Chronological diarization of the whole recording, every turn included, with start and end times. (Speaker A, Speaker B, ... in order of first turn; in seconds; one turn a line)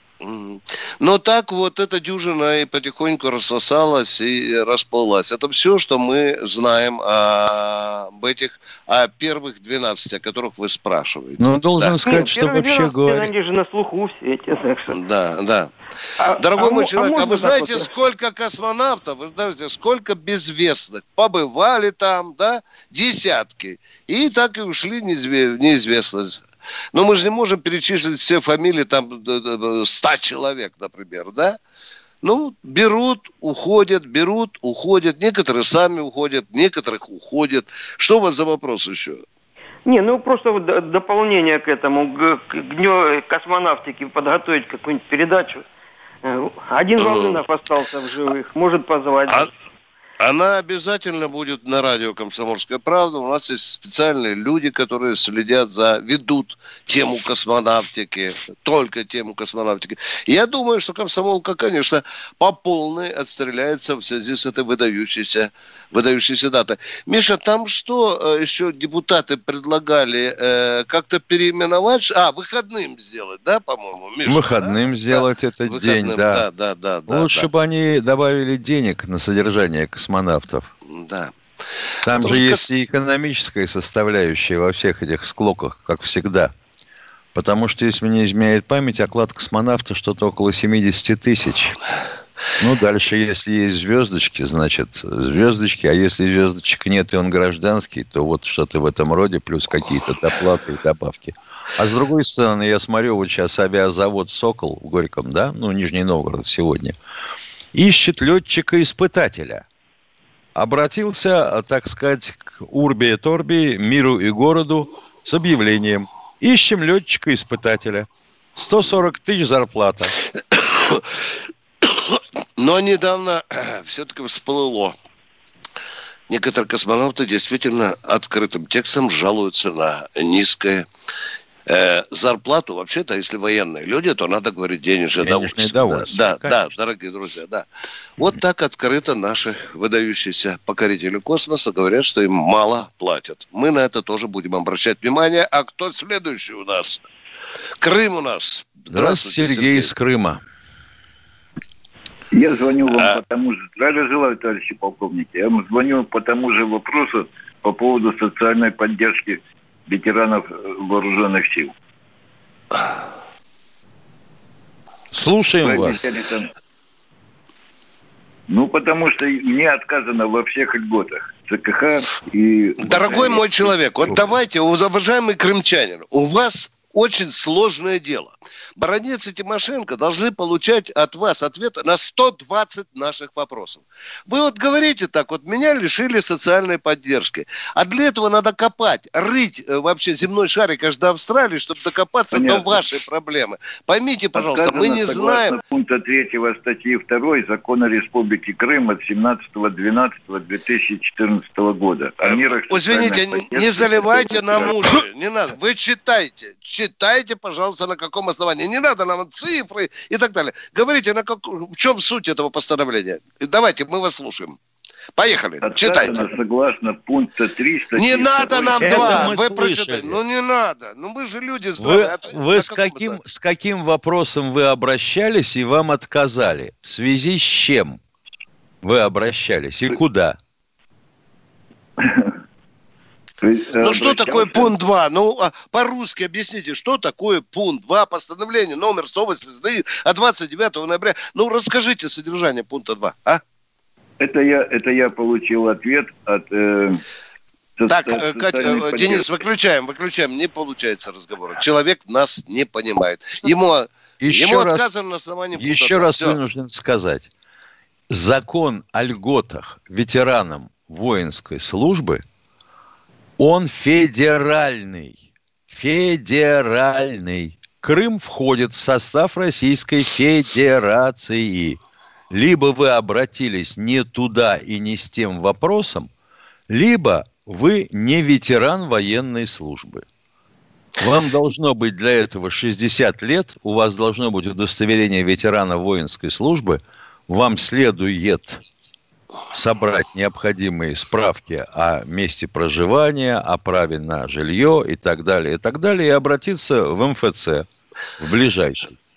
Speaker A: 0.2-12.2
Speaker B: 11.4-13.3
Speaker C: 12.0-15.0
Speaker A: 14.9-15.7
Speaker C: 16.2-17.9
Speaker A: 16.4-31.6
Speaker A: 32.2-39.2
Speaker C: 39.9-45.6
Speaker C: 46.2-49.5
Speaker A: 47.0-47.3
Speaker A: 50.2-77.5
Speaker B: 74.2-76.4
Speaker B: 77.1-80.7
Speaker A: 80.9-81.3
Speaker B: 82.0-86.5
Speaker A: 82.1-82.7
Speaker B: 87.3-91.8
Speaker B: 92.6-107.0
Speaker B: 107.7-109.6
Speaker B: 110.5-118.1
Speaker B: 118.6-120.1
Speaker A: 120.5-121.0
Speaker A: 121.8-124.9
Speaker A: 126.3-130.9
Speaker A: 131.7-137.6
Speaker B: 135.2-136.6
Speaker A: 138.2-147.0
Speaker A: 147.8-149.9
Speaker B: 148.9-150.4
Speaker D: 152.3-161.7
Speaker A: 152.9-153.2
Speaker B: 165.1-166.0
Speaker D: 165.6-166.5
Speaker D: 168.5-174.2
Speaker A: 172.8-195.6
Speaker D: 192.3-193.0
Speaker D: 194.3-205.0
Speaker A: 202.2-214.6
Speaker A: 215.2-216.3
Speaker D: 215.6-219.3
Speaker A: 217.9-223.2
Speaker B: 218.8-220.2
Speaker B: 221.8-228.0
Speaker B: 228.8-230.4
Speaker D: 232.0-232.4
Speaker D: 233.4-234.7
Speaker A: 233.8-243.4
Speaker D: 244.2-247.0
Speaker D: 247.8-249.3
Speaker A: 247.9-256.4
Speaker B: 254.2-254.8
Speaker B: 255.5-257.3
Speaker B: 258.1-262.2
Speaker B: 263.4-271.8
Speaker B: 272.3-276.1
Speaker B: 276.7-280.0
Speaker B: 281.0-288.6
Speaker B: 289.5-297.6
Speaker B: 298.2-298.9